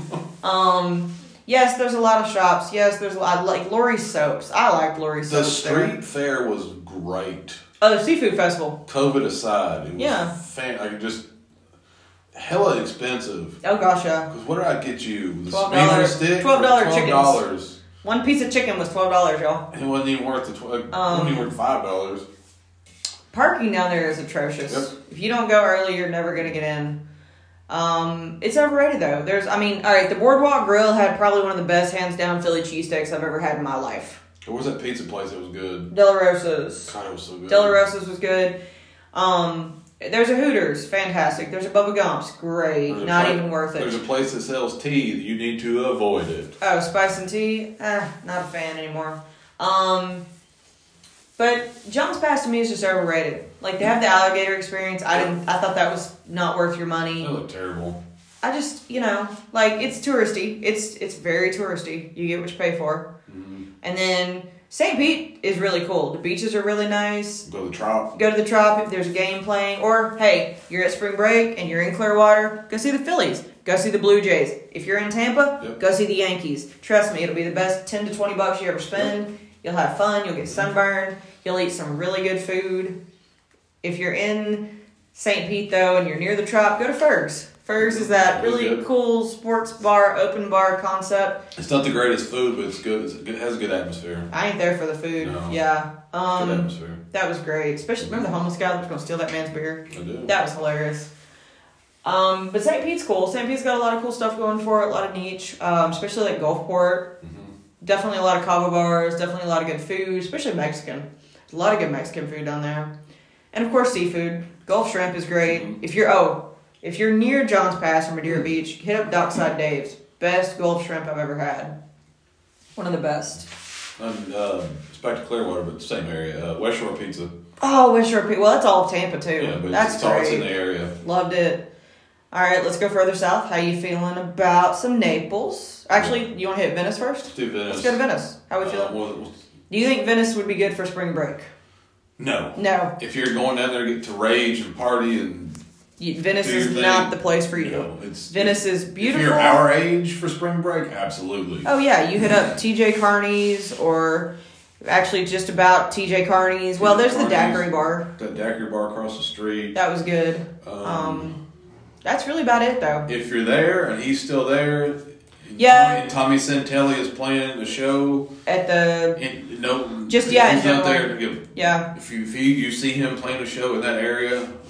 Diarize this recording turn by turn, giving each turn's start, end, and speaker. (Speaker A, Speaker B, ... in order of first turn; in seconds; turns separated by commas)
Speaker A: 0.4-5.9, Speaker B: 5.3-7.6, Speaker A: 7.8-8.8, Speaker B: 8.9-11.2, Speaker A: 10.0-10.3, Speaker B: 12.3-13.6, Speaker A: 13.6-14.3, Speaker B: 14.3-17.8, Speaker A: 15.5-17.4, Speaker A: 18.0-19.6, Speaker B: 19.7-22.2, Speaker A: 20.9-21.5, Speaker A: 23.3-27.0, Speaker A: 27.7-34.2, Speaker B: 34.4-35.9, Speaker A: 35.9-36.9, Speaker B: 36.9-37.8, Speaker A: 37.5-38.5, Speaker A: 39.1-44.0, Speaker B: 42.9-46.5, Speaker A: 46.6-50.2, Speaker A: 51.4-57.3, Speaker B: 57.2-58.0, Speaker A: 58.4-63.1, Speaker B: 63.3-63.6, Speaker A: 63.8-67.5, Speaker B: 67.4-68.1, Speaker A: 68.1-83.0, Speaker A: 83.8-91.4, Speaker B: 87.8-88.8, Speaker B: 91.5-94.3, Speaker A: 94.3-101.1, Speaker B: 95.2-95.6, Speaker B: 96.3-97.0, Speaker B: 98.0-98.3, Speaker B: 99.9-100.3, Speaker A: 102.0-107.1, Speaker B: 107.2-107.5, Speaker A: 107.8-112.9, Speaker A: 113.5-121.7, Speaker B: 115.5-115.8, Speaker A: 122.8-123.5, Speaker B: 124.0-127.3, Speaker A: 127.6-131.6, Speaker B: 129.4-130.9, Speaker A: 132.3-138.9, Speaker B: 135.9-136.2, Speaker B: 137.3-138.0, Speaker B: 138.6-139.4, Speaker A: 139.7-141.5, Speaker B: 142.2-145.6, Speaker A: 142.6-142.9, Speaker A: 146.0-149.6, Speaker B: 146.4-151.7, Speaker A: 151.6-154.3, Speaker A: 154.8-158.1, Speaker B: 156.8-159.8, Speaker A: 159.7-161.4, Speaker B: 160.6-161.4, Speaker A: 162.0-163.1, Speaker B: 163.1-168.3, Speaker A: 165.6-166.2, Speaker A: 168.4-169.2, Speaker B: 169.2-174.5, Speaker A: 170.1-171.9